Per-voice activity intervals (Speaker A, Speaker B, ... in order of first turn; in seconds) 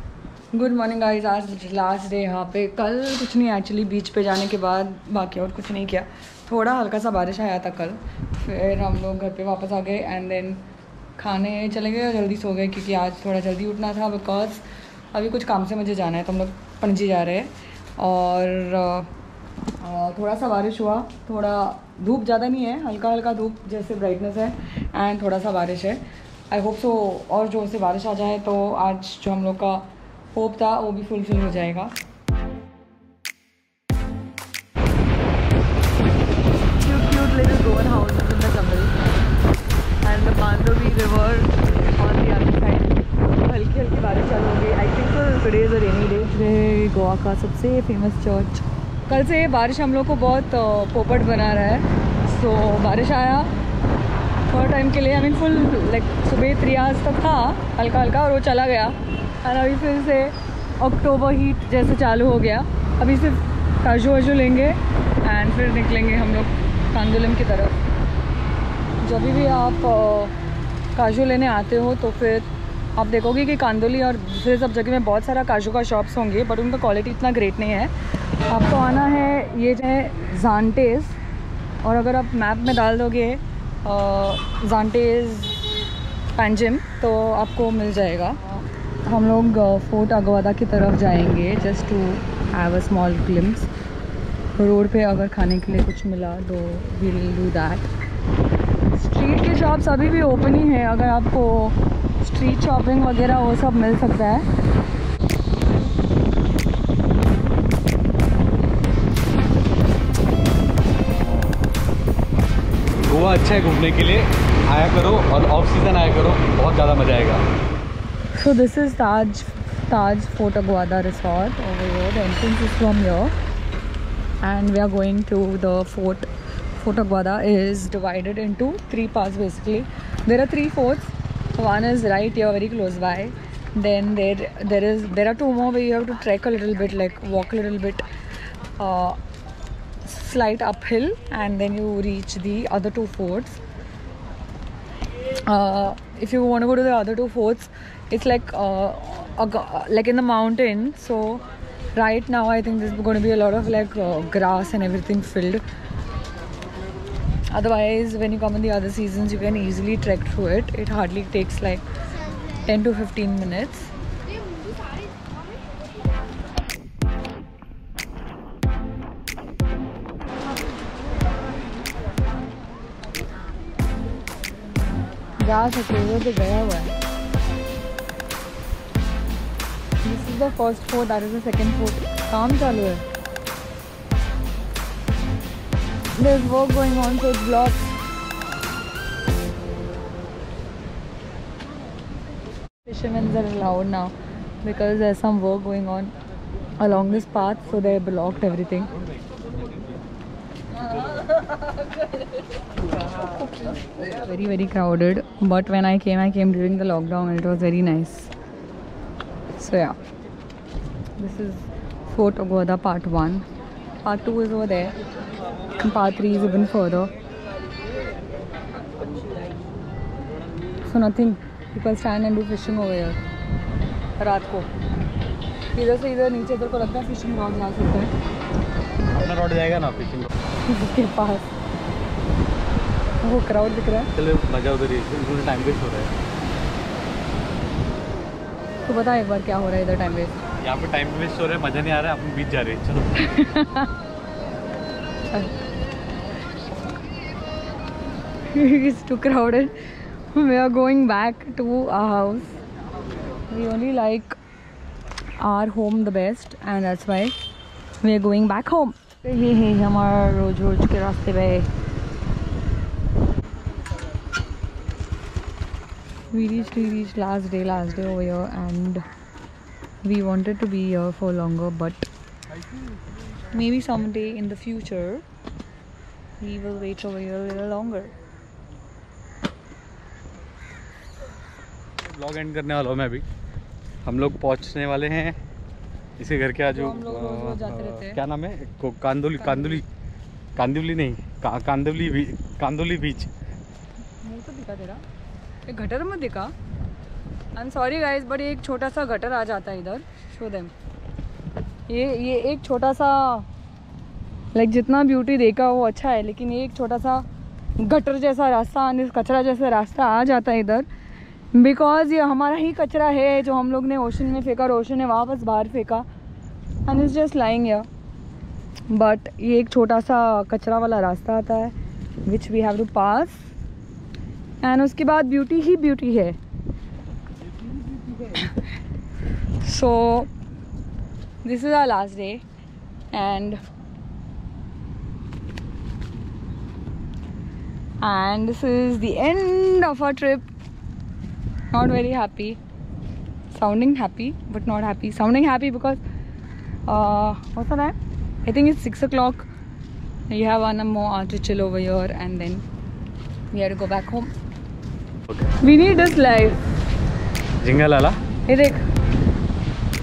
Speaker A: 0.5-10.6, 11.2-19.1, 19.8-31.9, 36.8-39.0, 40.0-53.5, 54.5-67.8, 69.0-70.3, 70.9-77.9, 78.4-81.2, 81.8-85.7, 86.3-93.7, 94.5-97.9, 98.8-104.5, 118.3-123.3, 124.4-138.0, 138.8-139.2, 140.0-143.6, 145.4-151.4, 151.9-155.6, 157.5-161.8, 162.6-163.9, 175.4-177.0, 180.0-183.0, 186.2-187.9, 192.8-196.1, 196.8-198.9, 200.9-202.0, 203.6-208.3, 209.6-210.0, 211.2-213.4, 214.0-215.0, 215.8-217.1, 220.8-223.2, 224.2-224.7, 225.7-228.1, 230.6-231.5, 233.2-234.1, 238.8-240.4, 243.2-243.9, 245.3-245.5, 248.4-252.6, 253.5-254.4, 255.4-257.3, 258.0-261.7, 266.3-269.0, 270.0-272.1, 273.5-275.2, 276.4-278.1, 286.7-288.2, 289.4-289.8, 294.2-295.0, 295.6-296.5, 297.5-300.7, 301.9-303.5, 304.5-307.2, 307.8-310.9, 311.5-316.1, 316.9-317.9, 318.9-323.5, 324.6-326.4, 328.3-328.6, 329.6-330.3, 331.4-332.4, 333.1-333.6, 338.0-340.5, 341.7-342.6, 343.5-346.0, 346.9-349.5, 350.3-352.6, 353.5-354.3, 355.6-356.6, 358.4-358.9
Speaker B: 113.1-117.4, 229.1-230.3, 234.1-236.1, 240.6-243.2, 282.1-283.2, 284.0-285.4, 286.2-289.9, 290.6-293.3, 357.6-358.2